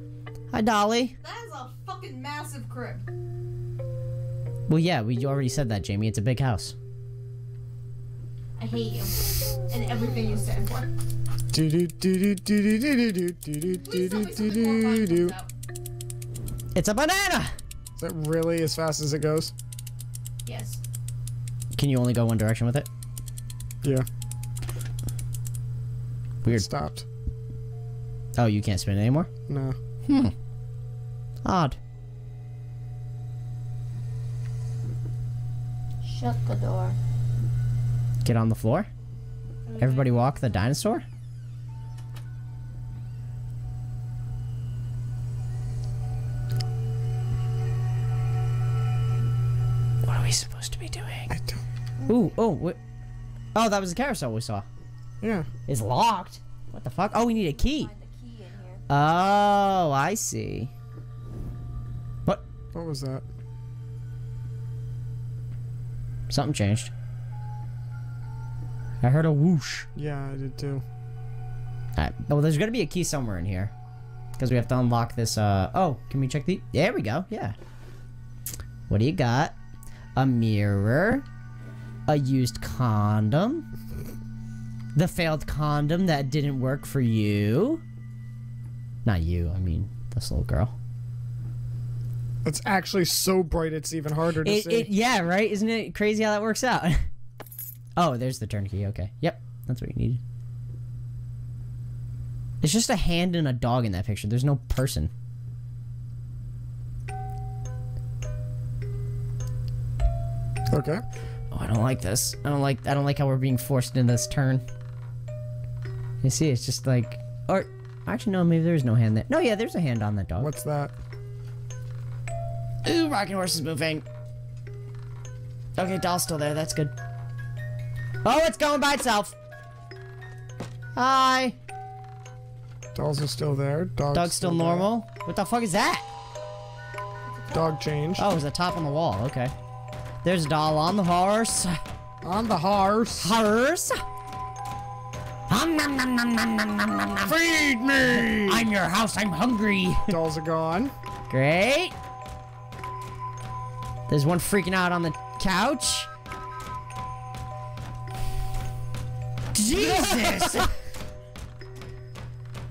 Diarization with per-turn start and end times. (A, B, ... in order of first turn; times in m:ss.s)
0:00.5-0:01.1 A
0:01.2-0:03.1 B
0:04.7-0:06.7 A
0:08.6-0:10.9 B
0:11.5-0:15.3 C
0:13.8-0:15.5 B
0:16.7-0:17.5 A
0:18.0-0:19.5 C
0:20.4-0:20.8 B
0:21.7-0:22.9 A
0:26.5-0:27.0 C
0:28.4-0:29.3 A
0:29.5-0:29.8 C
0:30.1-0:30.3 A
0:31.4-0:31.8 A
0:36.0-0:37.0 D
0:38.2-0:38.9 A
0:39.7-0:40.4 B
0:39.8-0:41.0 A
0:50.0-0:51.3 A
0:51.3-0:51.6 C
0:52.1-0:52.8 A
0:53.5-0:54.6 A
0:55.2-0:55.5 C
0:55.7-0:57.9 A
0:57.6-0:58.8 D
0:58.9-1:00.7 A
1:02.7-1:03.2 C
1:06.3-1:06.9 A
1:09.0-1:09.9 A
1:09.9-1:10.8 C
1:12.0-1:13.7 A
1:14.4-1:17.6 A
1:18.9-1:19.5 A
1:20.2-1:21.2 A
1:22.1-1:23.6 A
1:24.9-1:27.8 A
1:29.0-1:30.7 A
1:32.4-1:34.9 C
1:34.4-1:37.1 A
1:38.0-1:40.2 A
1:42.6-1:45.1 A
1:50.7-1:51.0 C
1:51.5-1:54.6 A
1:56.2-2:00.5 A
2:00.4-2:00.9 C
2:02.8-2:04.0 A
2:05.8-2:06.9 A
2:08.2-2:09.4 A
2:11.0-2:11.6 A
2:12.9-2:14.9 C
2:14.1-2:16.0 A
2:17.5-2:18.2 C
2:18.2-2:19.5 A
2:20.2-2:21.8 A
2:22.2-2:23.3 C
2:23.2-2:24.0 A
2:25.5-2:27.4 A
2:27.2-2:28.6 C
2:28.0-2:30.2 A
2:30.1-2:30.9 C
2:31.3-2:31.9 A
2:34.1-2:36.1 A
2:39.5-2:40.7 A